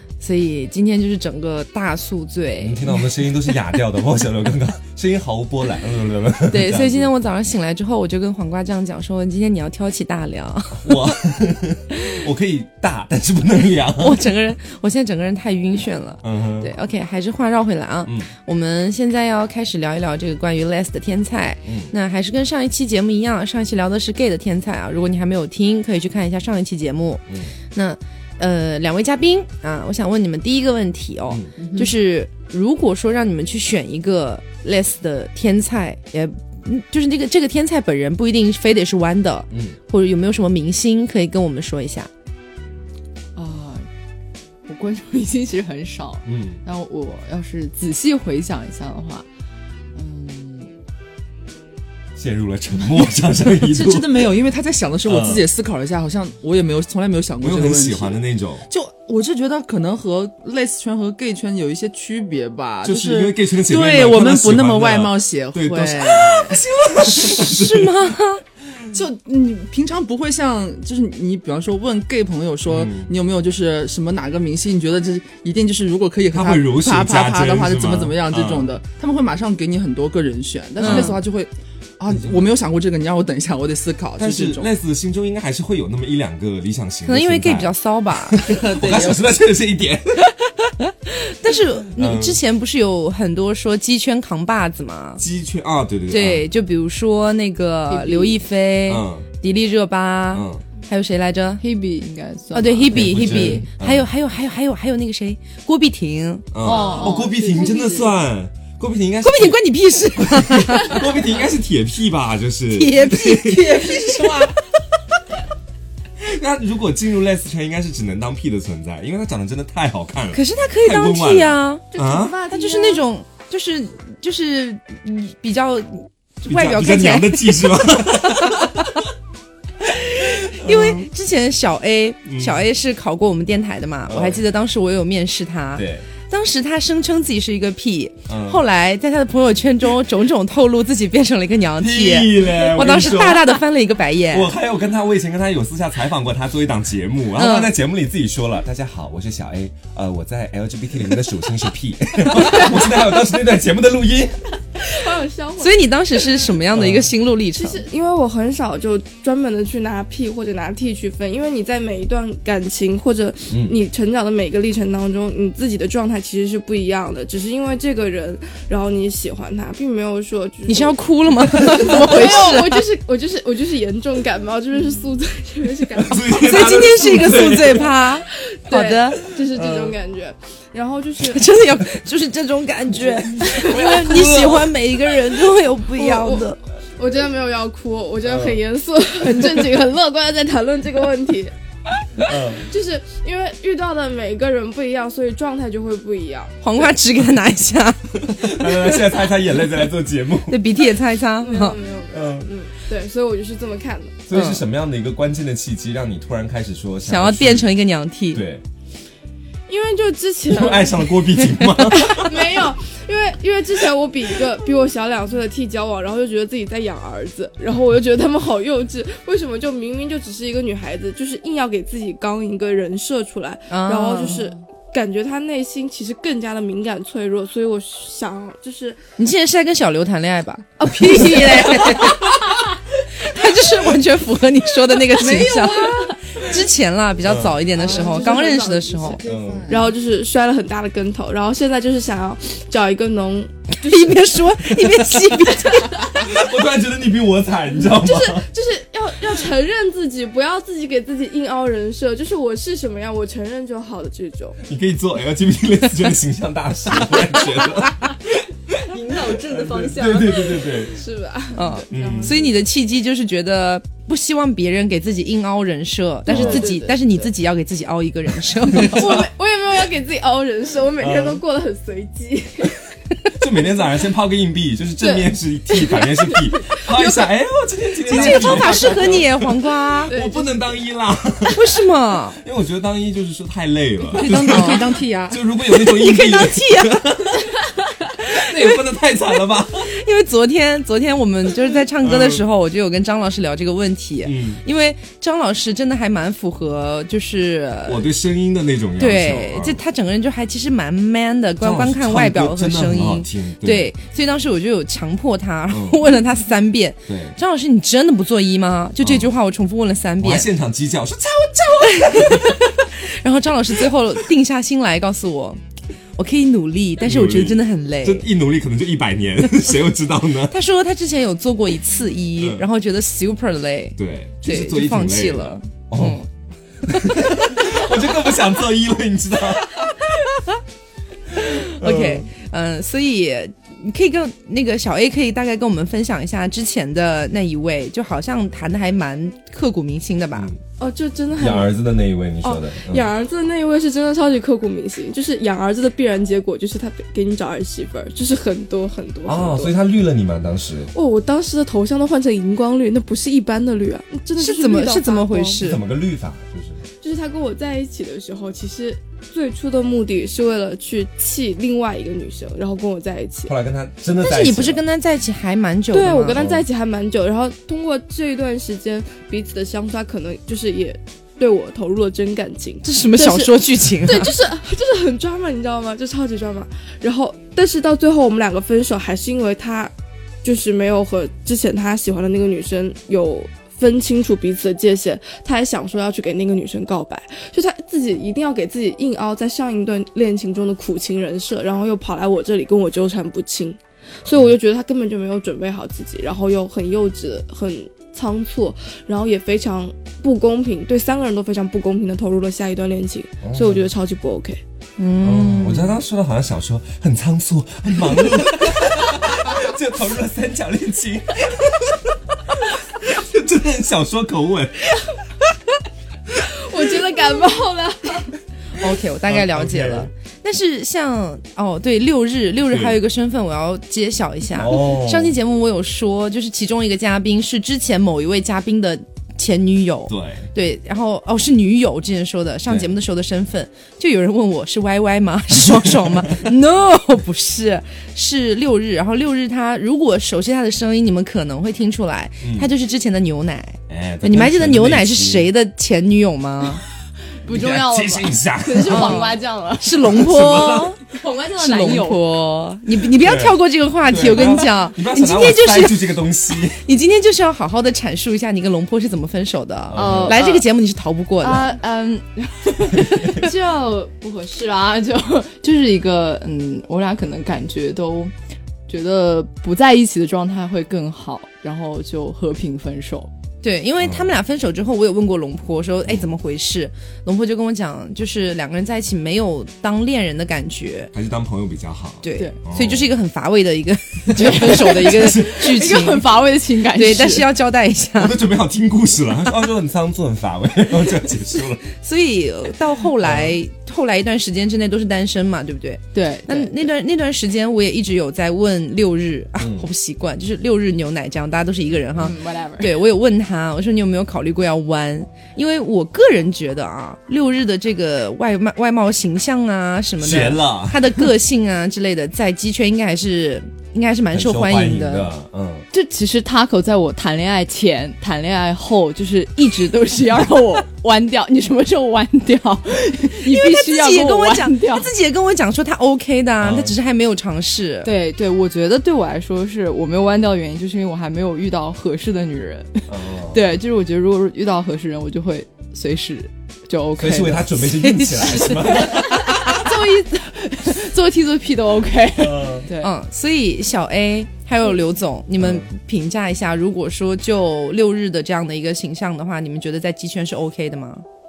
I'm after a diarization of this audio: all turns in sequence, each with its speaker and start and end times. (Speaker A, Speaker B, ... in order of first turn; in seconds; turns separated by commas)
Speaker A: 0.2-3.0, Speaker B: 2.6-7.1, Speaker A: 6.5-11.2, Speaker B: 10.8-14.2, Speaker A: 14.0-42.1, Speaker B: 16.2-16.7, Speaker B: 21.6-21.9, Speaker C: 31.6-31.9, Speaker B: 39.5-39.8, Speaker C: 43.4-43.9, Speaker C: 44.7-49.3, Speaker B: 46.3-46.6, Speaker C: 50.0-50.7, Speaker B: 52.2-54.3, Speaker D: 53.6-66.6, Speaker B: 55.0-55.5, Speaker B: 57.4-58.7, Speaker B: 62.8-68.1, Speaker A: 67.2-68.4, Speaker D: 68.9-84.7, Speaker B: 72.7-73.1, Speaker B: 76.3-78.7, Speaker A: 80.8-81.2, Speaker B: 80.8-81.2, Speaker B: 82.1-82.4, Speaker B: 84.2-90.2, Speaker A: 87.1-88.4, Speaker D: 88.4-89.4, Speaker A: 90.8-95.2, Speaker B: 91.9-92.4, Speaker B: 95.2-96.5, Speaker A: 96.1-101.7, Speaker C: 97.9-98.4, Speaker B: 98.9-99.3, Speaker B: 100.3-100.6, Speaker C: 101.6-103.4, Speaker A: 102.5-106.6, Speaker B: 102.9-104.1, Speaker B: 106.5-113.9, Speaker C: 106.6-108.0, Speaker E: 106.7-107.5, Speaker A: 109.2-111.1, Speaker A: 112.7-114.4, Speaker D: 113.4-114.5, Speaker B: 116.2-122.4, Speaker A: 120.3-121.9, Speaker E: 121.9-123.0, Speaker A: 122.5-128.9, Speaker B: 126.5-129.0, Speaker A: 130.1-144.5, Speaker B: 130.6-131.1, Speaker B: 132.3-132.6, Speaker B: 134.1-134.4, Speaker B: 135.8-136.1, Speaker B: 138.3-138.6, Speaker B: 141.8-143.6, Speaker B: 144.3-154.4, Speaker A: 147.3-147.7, Speaker E: 154.8-156.5, Speaker A: 155.6-157.8, Speaker B: 156.7-157.1, Speaker E: 157.6-171.0, Speaker B: 163.5-163.8, Speaker A: 170.7-172.8, Speaker E: 171.5-176.9, Speaker B: 176.0-177.9, Speaker A: 176.4-179.3, Speaker E: 178.3-181.4, Speaker B: 179.5-180.0, Speaker A: 181.2-186.6, Speaker B: 183.0-184.7, Speaker E: 183.7-184.2, Speaker E: 186.0-191.5, Speaker B: 188.2-188.6, Speaker B: 192.3-192.7, Speaker E: 192.6-196.9, Speaker A: 196.6-198.9, Speaker B: 198.2-200.7, Speaker A: 200.5-201.8, Speaker E: 201.4-204.2, Speaker B: 202.1-202.5, Speaker B: 204.3-207.7, Speaker A: 204.3-204.6, Speaker A: 207.1-208.4, Speaker B: 208.3-208.6, Speaker E: 209.7-211.2, Speaker B: 210.5-212.6, Speaker E: 211.8-229.0, Speaker A: 223.7-224.4, Speaker A: 229.2-232.5, Speaker E: 230.8-232.7, Speaker A: 233.2-239.2, Speaker E: 235.2-236.5, Speaker B: 237.2-237.6, Speaker E: 237.8-244.2, Speaker D: 237.8-239.9, Speaker B: 239.2-239.8, Speaker A: 243.8-246.2, Speaker E: 245.5-246.2, Speaker B: 246.2-248.5, Speaker E: 247.8-254.6, Speaker B: 254.6-261.0, Speaker C: 258.9-260.3, Speaker E: 260.1-262.6, Speaker A: 261.6-269.3, Speaker B: 261.9-262.4, Speaker E: 266.3-267.3, Speaker B: 266.3-266.7, Speaker E: 268.8-272.9, Speaker B: 271.0-271.4, Speaker B: 273.4-287.6, Speaker E: 275.0-277.3, Speaker A: 278.1-280.1, Speaker D: 278.2-278.8, Speaker E: 280.1-280.6, Speaker A: 281.5-282.4, Speaker C: 284.1-285.4, Speaker A: 284.4-284.9, Speaker A: 285.6-287.0, Speaker B: 288.2-289.9, Speaker A: 288.4-288.7, Speaker A: 289.8-298.1, Speaker B: 292.0-292.4, Speaker B: 294.2-294.6, Speaker B: 297.9-299.8, Speaker A: 299.0-310.5, Speaker B: 301.6-303.9, Speaker B: 305.7-306.0, Speaker B: 307.1-307.4, Speaker B: 309.0-309.3, Speaker B: 310.2-312.6, Speaker A: 311.8-315.6, Speaker A: 316.2-318.3, Speaker B: 317.0-320.6, Speaker A: 320.5-326.3, Speaker B: 322.4-322.7, Speaker B: 324.0-326.2, Speaker B: 326.9-329.8, Speaker A: 331.4-340.5, Speaker B: 331.5-332.3, Speaker E: 340.8-341.8, Speaker B: 341.4-343.1, Speaker E: 342.4-349.7, Speaker B: 349.3-350.9, Speaker E: 350.9-355.6, Speaker A: 354.4-355.8, Speaker B: 355.6-356.8, Speaker E: 357.0-363.5, Speaker B: 363.5-364.8, Speaker A: 364.2-366.4, Speaker E: 365.9-379.9, Speaker B: 366.4-366.6, Speaker A: 372.8-374.3, Speaker E: 380.4-404.6, Speaker B: 403.4-403.9, Speaker A: 405.0-406.0, Speaker B: 405.2-414.9, Speaker E: 416.4-418.4, Speaker A: 418.8-446.8, Speaker B: 419.3-420.1, Speaker B: 422.7-423.0, Speaker B: 424.6-425.4, Speaker B: 430.1-430.5, Speaker B: 435.7-436.4, Speaker B: 442.4-442.7, Speaker B: 443.9-445.5, Speaker C: 447.4-450.2, Speaker B: 447.5-449.4, Speaker A: 448.9-451.0, Speaker B: 450.0-451.0, Speaker C: 451.0-452.3, Speaker A: 451.6-456.1, Speaker B: 453.2-456.8, Speaker A: 456.8-461.7, Speaker B: 459.9-460.4, Speaker C: 459.9-460.6, Speaker C: 461.4-468.3, Speaker B: 463.1-463.4, Speaker C: 468.9-473.3, Speaker A: 473.6-481.1, Speaker B: 474.0-474.3, Speaker B: 481.1-483.1, Speaker A: 482.2-486.4, Speaker B: 484.4-485.7, Speaker C: 484.7-487.5, Speaker A: 486.9-488.4, Speaker B: 488.2-491.8, Speaker A: 491.9-515.3, Speaker B: 493.2-493.6, Speaker C: 496.1-496.8, Speaker B: 499.6-499.9, Speaker C: 502.2-503.0, Speaker B: 510.2-511.1, Speaker B: 514.3-515.9, Speaker C: 515.9-525.1, Speaker A: 523.4-528.1, Speaker B: 526.6-526.9, Speaker C: 528.0-543.1, Speaker B: 533.1-533.6, Speaker B: 537.2-539.8, Speaker B: 542.4-542.9, Speaker A: 543.0-551.2, Speaker B: 545.6-545.9